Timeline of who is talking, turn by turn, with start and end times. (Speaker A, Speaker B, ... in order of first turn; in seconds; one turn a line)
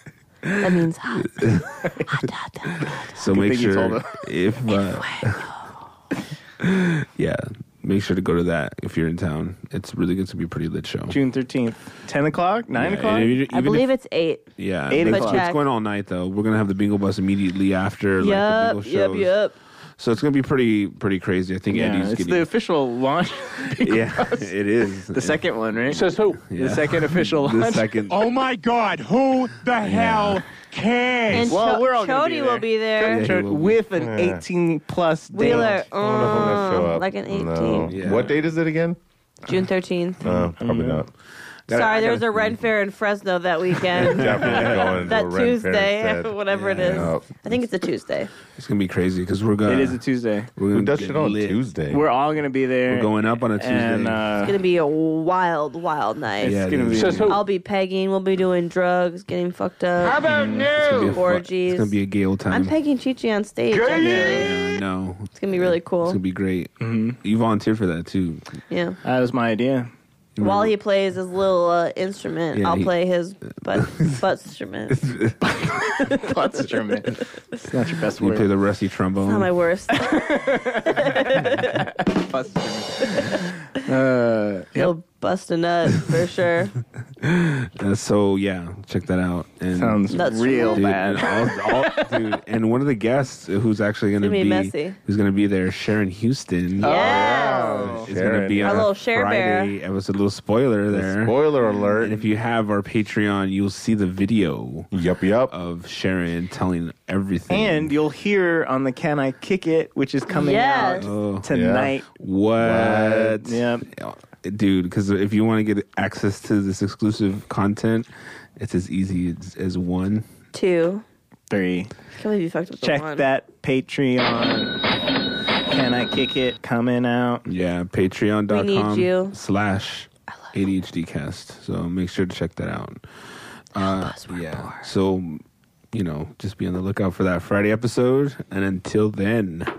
Speaker A: 0.6-1.4
Speaker B: 1.2-1.9
Speaker A: 2.1-3.0
Speaker B: 2.9-5.5
Speaker C: 3.3-4.2
Speaker A: 4.7-5.5
Speaker B: 6.6-11.2
Speaker C: 11.1-13.4
Speaker B: 12.7-13.9
Speaker A: 13.4-15.6
Speaker B: 14.6-19.4
Speaker C: 14.9-15.4
Speaker A: 18.2-19.5
Speaker B: 20.0-22.5
Speaker C: 21.7-24.5
Speaker B: 23.8-28.3
Speaker C: 25.1-26.0
Speaker D: 25.9-26.5
Speaker C: 26.5-27.9
Speaker D: 28.1-31.6
Speaker B: 29.8-30.2
Speaker A: 31.3-33.3
Speaker C: 31.5-35.8
Speaker B: 33.0-33.8
Speaker E: 34.0-34.4
Speaker A: 35.3-38.0
Speaker E: 35.4-39.0
Speaker B: 37.9-38.4
Speaker A: 39.5-40.2
Speaker E: 40.2-41.1
Speaker C: 40.3-41.0
Speaker B: 41.7-42.6
Speaker C: 41.7-42.2
Speaker A: 41.7-48.3
Speaker B: 44.0-45.1
Speaker E: 44.0-47.3
Speaker B: 46.5-47.2
Speaker B: 48.5-50.0
Speaker C: 49.6-50.5
Speaker B: 50.5-51.6
Speaker E: 50.7-52.0
Speaker C: 51.9-54.5
Speaker B: 52.9-54.3
Speaker A: 54.4-56.6
Speaker C: 56.4-57.3
Speaker B: 56.4-57.3
Speaker D: 56.9-57.4
Speaker A: 57.3-60.2
Speaker D: 60.0-61.2
Speaker C: 60.3-60.7
Speaker B: 60.7-62.8
Speaker A: 61.1-62.0
Speaker A: 62.5-64.5
Speaker D: 63.7-64.5
Speaker C: 64.0-64.5
Speaker B: 64.2-68.4
Speaker A: 65.3-66.2
Speaker C: 66.8-67.2
Speaker A: 68.7-69.0
Speaker C: 69.0-69.9
Speaker B: 70.3-70.8
Speaker A: 70.4-75.1
Speaker B: 72.5-72.9
Speaker B: 73.7-74.2
Speaker B: 74.9-75.5
Speaker A: 76.0-76.4
Speaker C: 76.1-78.5
Speaker B: 78.2-79.5
Speaker A: 79.2-81.8
Speaker C: 80.0-84.9
Speaker A: 84.7-86.7
Speaker B: 87.2-97.2
Speaker C: 89.7-92.0
Speaker A: 90.1-90.9
Speaker A: 94.2-95.0
Speaker C: 96.8-98.1
Speaker A: 96.8-97.9
Speaker E: 97.0-98.8
Speaker B: 97.9-104.9
Speaker A: 98.6-99.8
Speaker E: 100.9-102.2
Speaker E: 104.9-105.5
Speaker B: 105.5-107.9
Speaker C: 107.5-112.1
Speaker A: 110.3-111.1
Speaker B: 110.9-111.5
Speaker E: 111.5-111.9
Speaker B: 112.2-120.2
Speaker E: 112.6-113.4
Speaker C: 113.4-113.9
Speaker A: 120.5-121.0
Speaker C: 121.5-121.9
Speaker A: 122.2-123.3
Speaker C: 122.8-124.8
Speaker C: 125.7-127.4
Speaker B: 127.5-133.0
Speaker A: 128.5-129.3
Speaker B: 133.7-139.7
Speaker A: 133.8-134.9